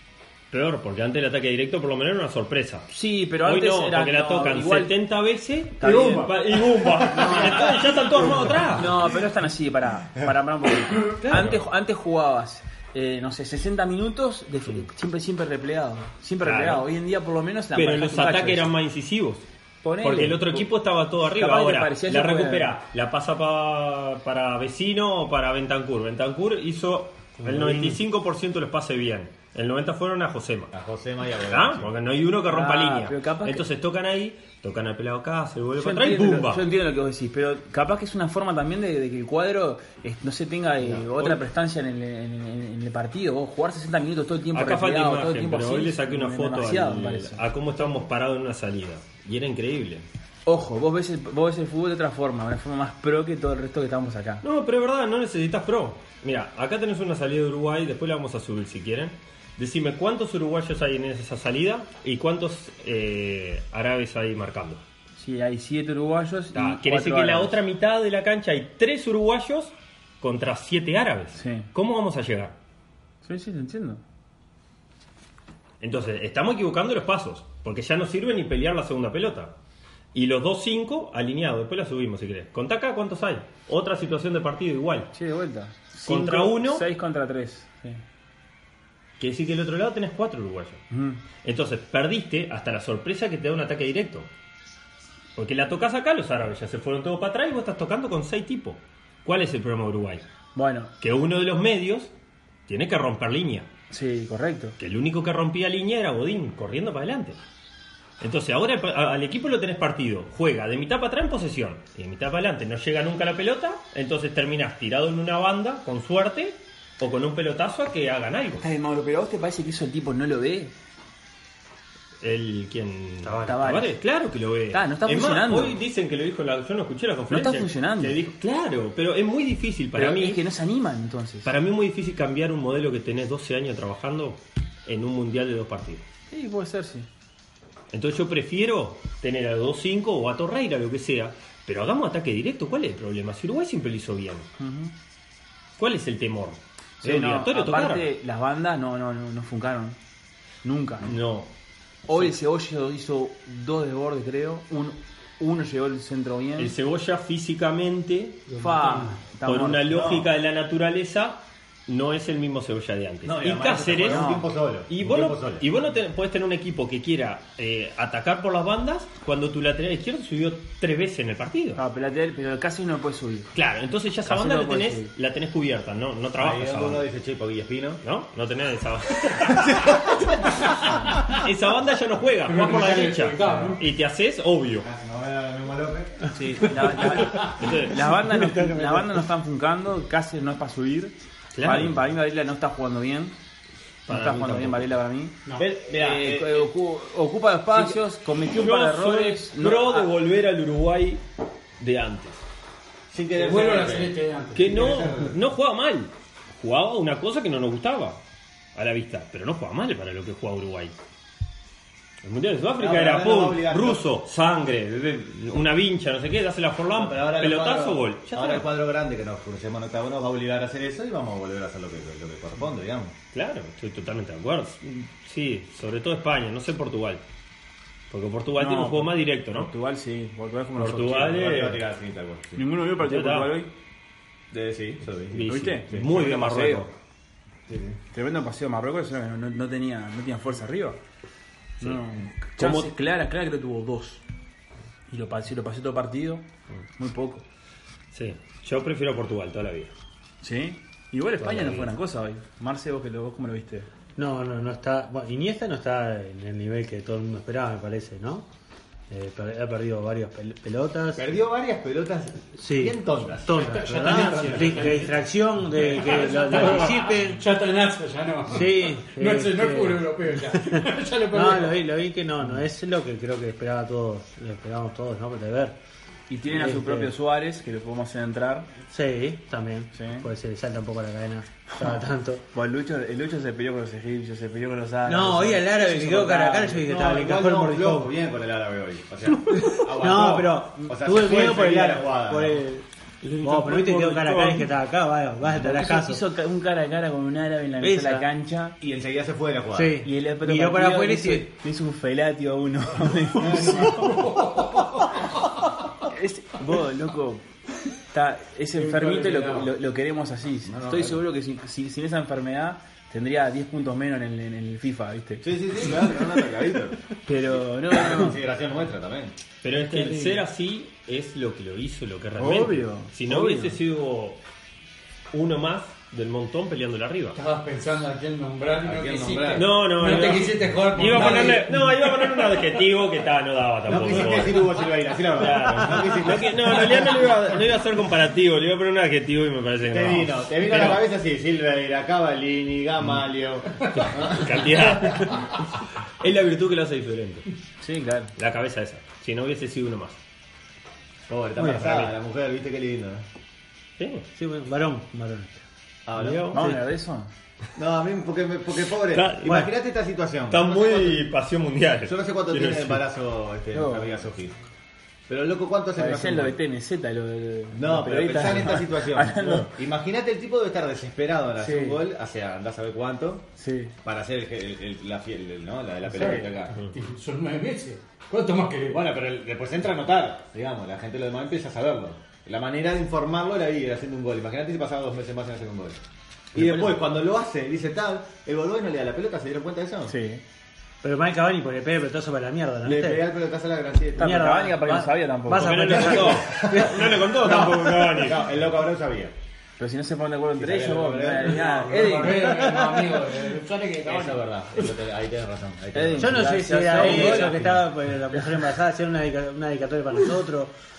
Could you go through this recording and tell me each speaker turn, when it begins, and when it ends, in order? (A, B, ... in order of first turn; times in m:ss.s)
0:00.5-0:02.9 A
0:02.9-0:04.9 B
0:03.4-0:08.9 A
0:05.8-0:06.3 C
0:05.8-0:06.2 B
0:08.7-0:18.7 B
0:11.2-0:11.7 A
0:16.4-0:16.8 A
0:17.7-0:19.4 A
0:19.8-0:22.8 B
0:20.0-0:30.7 A
0:27.4-0:28.0 D
0:30.7-0:31.9 E
0:31.5-0:36.6 A
0:32.5-0:33.6 B
0:35.8-0:47.4 B
0:40.8-0:41.1 E
0:44.5-0:50.0 A
0:50.4-0:54.4 B
0:54.4-1:04.8 A
1:05.2-1:07.6 B
1:06.5-1:12.6 A
1:11.3-1:11.7 B
1:13.2-1:14.0 B
1:15.8-1:19.5 A
1:20.1-1:25.1 A
1:25.1-1:28.0 B
1:26.1-1:26.8 A
1:29.2-1:30.8 A
1:30.9-1:31.2 B
1:31.4-1:34.3 A
1:35.4-1:40.2 A
1:40.5-1:40.9 B
1:41.0-1:42.1 A
1:42.7-1:43.7 A
1:43.9-1:44.8 B
1:44.8-1:47.4 A
1:48.2-1:58.6 A
1:58.6-2:00.7 B
2:02.2-2:10.4 A
2:03.2-2:03.9 D
2:03.5-2:04.0 B
2:04.7-2:05.8 B
2:07.3-2:08.2 B
2:09.9-2:11.5 B
2:11.4-2:16.0 A
2:16.3-2:17.1 B
2:17.9-2:24.5 A
2:24.6-2:24.9 B
2:25.8-2:28.1 A
2:27.0-2:30.0 B
2:30.6-2:31.1 B
2:31.0-2:31.5 A
2:32.1-2:36.7 B
2:36.6-2:51.8 A
2:38.5-2:40.0 B
2:39.9-2:40.3 E
2:43.2-2:45.6 E
2:44.0-2:44.4 B
2:51.7-2:53.5 B
2:53.5-2:57.1 A
2:54.2-2:55.1 B
2:56.4-2:58.0 E
2:58.0-3:04.9 A
2:59.3-3:00.7 E
3:02.4-3:03.8 C
3:04.8-3:06.2 E
3:06.3-3:13.4 B
3:07.3-3:08.0 A
3:08.2-3:09.2 D
3:11.5-3:12.0 A
3:14.1-3:14.9 A
3:14.1-3:20.1 B
3:15.5-3:16.7 E
3:17.7-3:21.2 A
3:21.8-3:22.4 A
3:23.1-3:25.3 E
3:23.3-3:25.1 C
3:24.6-3:28.2 A
3:28.7-3:30.9 A
3:32.2-3:38.7 A
3:32.8-3:34.0 E
3:36.9-3:43.1 E
3:43.3-3:47.2 A
3:48.1-3:49.7 A
3:48.6-3:51.6 B
3:50.8-3:51.8 A
3:51.2-3:52.6 E
3:52.6-3:53.7 B
3:53.0-3:53.6 A
3:54.5-3:56.0 E
3:55.3-3:56.9 A
3:55.4-3:56.9 B
3:57.7-3:58.0 E
3:58.1-4:01.0 B
4:01.8-4:04.2 B
4:02.5-4:02.9 A
4:05.1-4:06.4 B
4:07.0-4:07.4 B
4:08.1-4:09.9 A
4:10.4-4:13.9 B
4:11.4-4:11.9 A
4:14.2-4:18.5 D
4:19.1-4:21.3 D
4:21.1-4:24.9 E
4:22.6-4:27.4 D
4:23.6-4:31.9 C
4:28.4-4:35.8 D
4:36.3-4:38.7 B
4:36.5-4:37.1 D
4:38.8-4:42.4 D
4:39.9-4:40.3 B
4:42.5-4:46.8 B
4:45.0-4:48.1 D
4:46.8-4:52.6 E
4:49.6-4:52.8 D
4:53.3-4:54.6 B
4:53.4-4:56.2 D
4:53.7-4:54.2 A
4:55.4-4:58.8 B
4:57.8-4:58.2 D
4:58.8-5:00.0 E
4:59.7-5:01.5 D
5:00.0-5:04.2 B
5:03.5-5:05.1 C
5:06.0-5:07.4 B
5:08.1-5:15.5 B
5:08.7-5:09.7 C
5:10.6-5:11.2 E
5:15.4-5:19.3 E
5:17.2-5:18.4 B
5:19.6-5:24.4 A
5:19.9-5:20.4 B
5:22.4-5:23.8 B
5:25.3-5:27.4 A
5:27.3-5:31.8 C
5:28.8-5:29.7 E
5:29.6-5:34.8 A
5:33.8-5:37.3 E
5:35.3-5:41.0 A
5:39.9-5:45.3 E
5:43.9-5:45.6 A
5:46.2-5:47.4 A
5:47.8-5:48.3 B
5:48.4-5:50.2 A
5:51.3-5:53.2 E
5:51.6-5:52.0 D
5:54.0-5:54.2 A
5:54.4-5:55.6 D
5:56.1-5:56.5 E
5:56.2-5:56.6 A
5:56.5-5:57.3 B
5:56.5-5:56.8 D
5:57.8-6:01.3 E
5:59.1-5:59.7 A
6:00.5-6:03.0 A
6:02.0-6:04.5 E
6:03.7-6:04.1 B
6:05.3-6:06.6 E
6:06.0-6:09.7 B
6:07.7-6:13.5 E
6:11.6-6:11.9 B
6:13.6-6:13.9 B
6:14.0-6:16.7 E
6:16.2-6:16.4 B
6:16.9-6:19.0 C
6:18.9-6:26.0 E
6:26.5-6:30.1 E
6:26.6-6:26.9 B
6:30.1-6:30.4 B
6:31.0-6:33.2 D
6:32.8-6:34.5 E
6:34.2-6:36.2 B
6:34.2-6:37.8 D
6:35.5-6:38.4 A
6:36.0-6:39.3 E
6:39.8-6:42.8 B
6:40.6-6:41.6 E
6:41.6-6:44.4 C
6:44.0-6:47.7 E
6:45.9-6:48.5 B
6:46.2-6:50.7 D